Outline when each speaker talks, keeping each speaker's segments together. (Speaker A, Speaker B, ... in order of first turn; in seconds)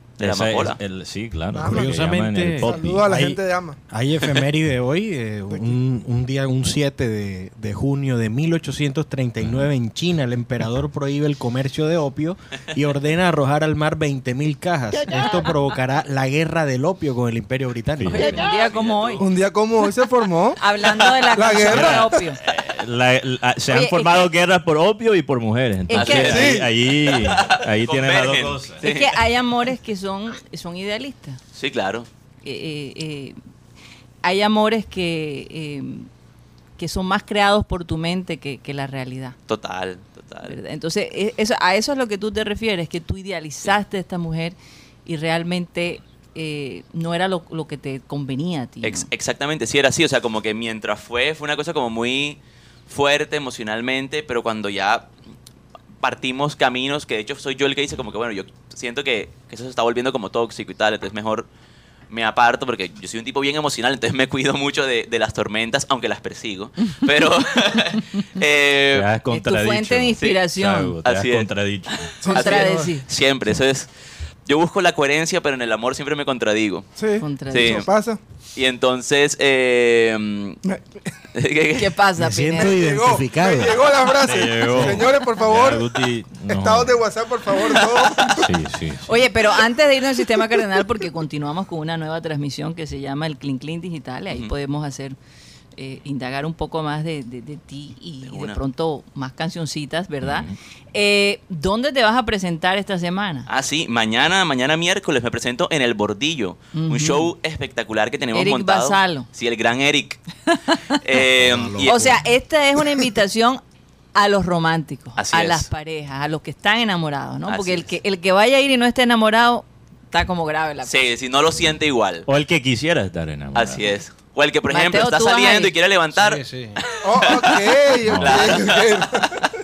Speaker A: 0.2-0.8, 18.7-19.2, 25.9-29.2, 31.5-32.1, 39.5-40.5, 48.8-55.1, 56.0-61.5, 62.1-69.1, 70.2-70.5, 71.0-73.9, 74.5-76.9, 77.4-77.9, 78.5-80.6, 81.3-82.0, 98.2-98.6, 103.5-110.2, 111.0-112.0, 115.2-115.7, 117.5-117.9, 120.8-122.3, 123.5-127.7, 128.2-129.4
Speaker B: 0.2-3.1, 9.4-9.7, 18.0-18.4, 21.7-28.9, 68.9-72.2, 84.2-87.0, 88.3-89.2, 100.2-100.5, 122.3-123.8, 128.1-128.7
Speaker C: 1.5-3.8, 5.5-5.8, 19.2-20.6, 21.4-22.1, 26.3-26.7, 72.2-72.9, 77.0-78.2, 80.6-80.9, 82.6-85.9, 86.5-88.5, 127.0-129.5
Speaker D: 1.6-18.3, 82.2-83.8, 84.8-85.0, 111.3-112.3, 126.1-126.8
Speaker E: 18.1-19.3, 20.6-22.4, 23.7-24.3, 25.9-26.5, 28.8-31.4, 32.4-33.4, 34.2-36.1, 36.8-39.4, 40.4-49.1, 69.3-71.0, 72.3-73.0, 77.2-77.8, 81.8-82.8, 89.1-95.2, 95.8-103.5, 106.7-107.3, 108.3-109.3, 110.5-111.0, 111.8-113.6, 114.2-120.9, 124.7-125.7